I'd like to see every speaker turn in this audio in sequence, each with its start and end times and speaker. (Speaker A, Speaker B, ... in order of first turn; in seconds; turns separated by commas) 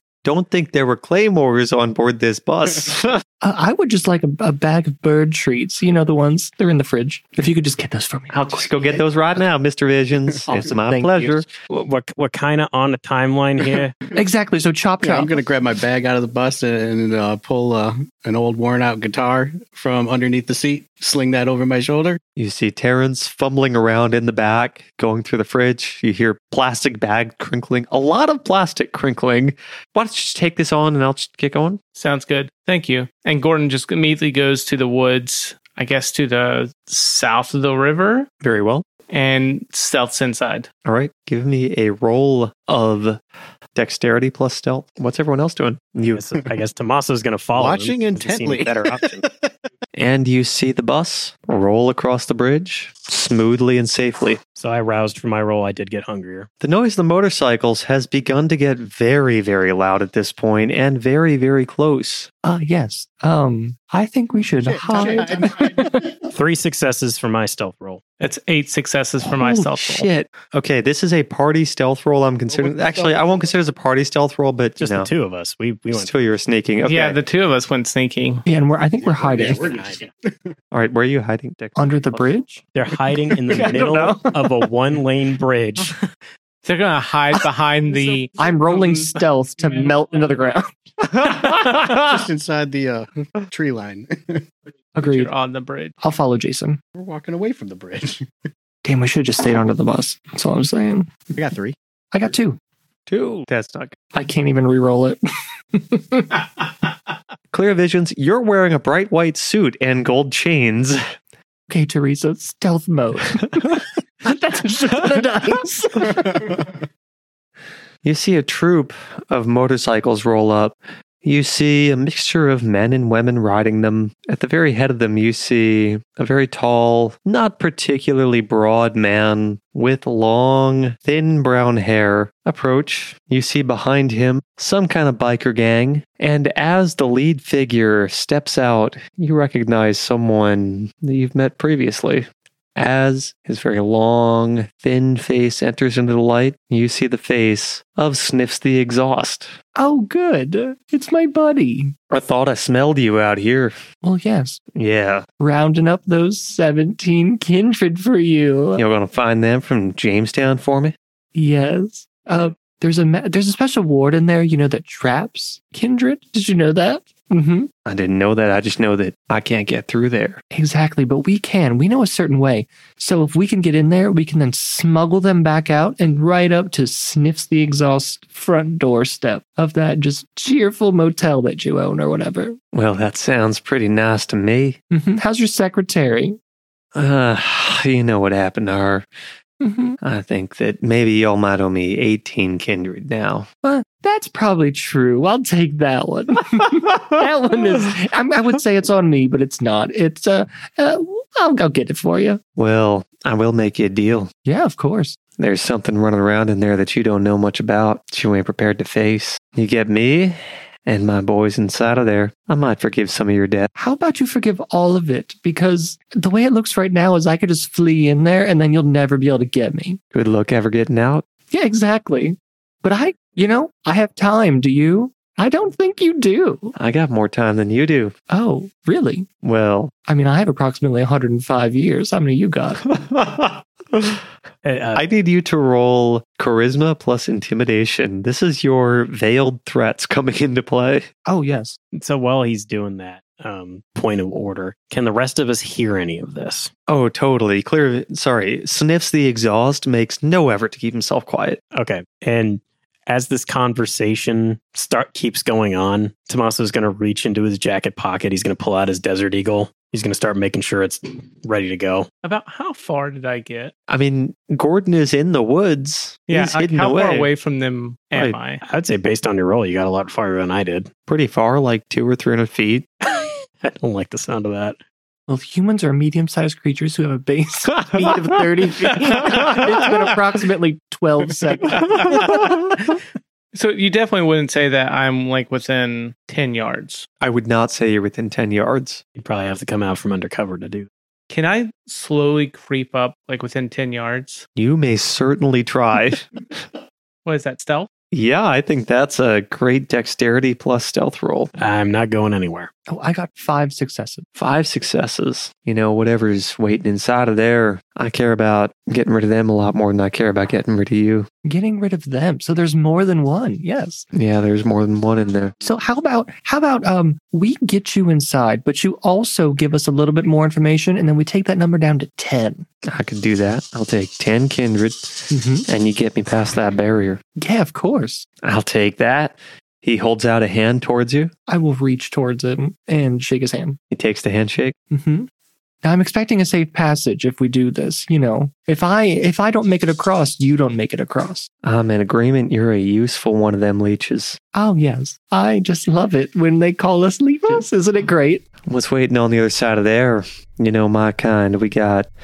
Speaker A: 0.2-3.2, Speaker B: 3.4-8.7, Speaker A: 8.3-11.5, Speaker B: 10.5-11.4, Speaker C: 11.7-14.0, Speaker B: 14.1-15.3, Speaker D: 15.0-22.2, Speaker A: 22.4-31.8, Speaker E: 31.9-38.3, Speaker A: 38.4-38.9, Speaker E: 39.1-40.7, Speaker A: 40.9-43.2, Speaker A: 43.8-46.3, Speaker C: 46.1-49.2, Speaker D: 47.5-49.5, Speaker A: 50.0-54.4, Speaker C: 54.6-56.5, Speaker A: 56.6-62.3, Speaker B: 62.4-66.1, Speaker D: 64.7-66.0, Speaker C: 66.3-68.0, Speaker E: 68.2-70.1, Speaker A: 69.4-75.1, Speaker D: 72.5-73.2, Speaker C: 74.8-76.1, Speaker A: 75.9-77.2, Speaker E: 76.8-78.5, Speaker B: 78.5-79.8, Speaker D: 79.1-80.5, Speaker A: 80.7-82.3, Speaker B: 81.8-82.6, Speaker C: 82.8-86.0, Speaker B: 83.5-84.5, Speaker E: 86.6-89.1, Speaker B: 88.4-90.7, Speaker B: 91.2-91.6, Speaker D: 91.9-94.5, Speaker B: 95.0-95.3, Speaker E: 95.0-96.0, Speaker B: 96.0-96.8, Speaker D: 97.0-98.3, Speaker B: 98.8-101.1, Speaker D: 101.3-101.8, Speaker B: 102.1-102.6, Speaker A: 103.1-104.0, Speaker B: 104.1-105.2, Speaker B: 105.8-106.3, Speaker A: 107.5-111.0, Speaker B: 111.7-116.5, Speaker A: 118.0-149.6, Speaker B: 149.8-151.9, Speaker A: 152.1-153.8, Speaker B: 154.0-154.6, Speaker A: 154.7-155.3, Speaker B: 155.4-158.8, Speaker A: 158.8-160.9, Speaker B: 161.3-167.7, Speaker A: 167.8-170.4, Speaker B: 170.5-182.6, Speaker A: 182.7-184.8, Speaker B: 184.9-186.4, Speaker A: 186.9-189.1, Speaker B: 189.6-190.0, Speaker A: 190.0-193.5, Speaker B: 193.6-202.4, Speaker A: 202.6-204.3, Speaker B: 204.5-205.2, Speaker A: 205.4-213.7, Speaker B: 213.8-220.0, Speaker A: 220.1-221.2, Speaker B: 221.5-226.7, Speaker A: 226.8-228.1, Speaker B: 228.3-229.3, Speaker A: 229.4-229.9, Speaker B: 230.1-232.8, Speaker A: 232.9-234.2, Speaker C: 234.6-235.0, Speaker A: 234.9-241.1, Speaker B: 241.3-241.8, Speaker C: 241.9-246.7, Speaker A: 246.9-251.6, Speaker C: 251.7-262.1, Speaker E: 262.2-263.7, Speaker A: 263.9-267.3, Speaker E: 266.3-268.6, Speaker C: 268.6-270.9, Speaker A: 271.1-272.9, Speaker C: 273.1-274.8, Speaker B: 275.3-282.0, Speaker E: 281.8-282.4, Speaker E: 283.5-287.1, Speaker A: 287.2-289.0, Speaker C: 289.2-290.9, Speaker E: 291.3-294.5, Speaker A: 294.6-296.3, Speaker E: 297.2-297.9, Speaker A: 298.1-301.5, Speaker C: 301.6-302.7, Speaker B: 302.9-304.2, Speaker A: 304.4-311.3, Speaker B: 311.4-314.1, Speaker A: 314.1-315.6, Speaker B: 315.6-322.7, Speaker A: 322.8-327.2, Speaker B: 325.3-325.7, Speaker B: 327.4-328.3, Speaker A: 328.4-331.3, Speaker B: 331.5-333.8, Speaker A: 333.9-334.8, Speaker B: 334.9-335.3, Speaker B: 335.8-341.5, Speaker A: 341.6-344.4, Speaker B: 344.5-348.4, Speaker A: 348.6-352.1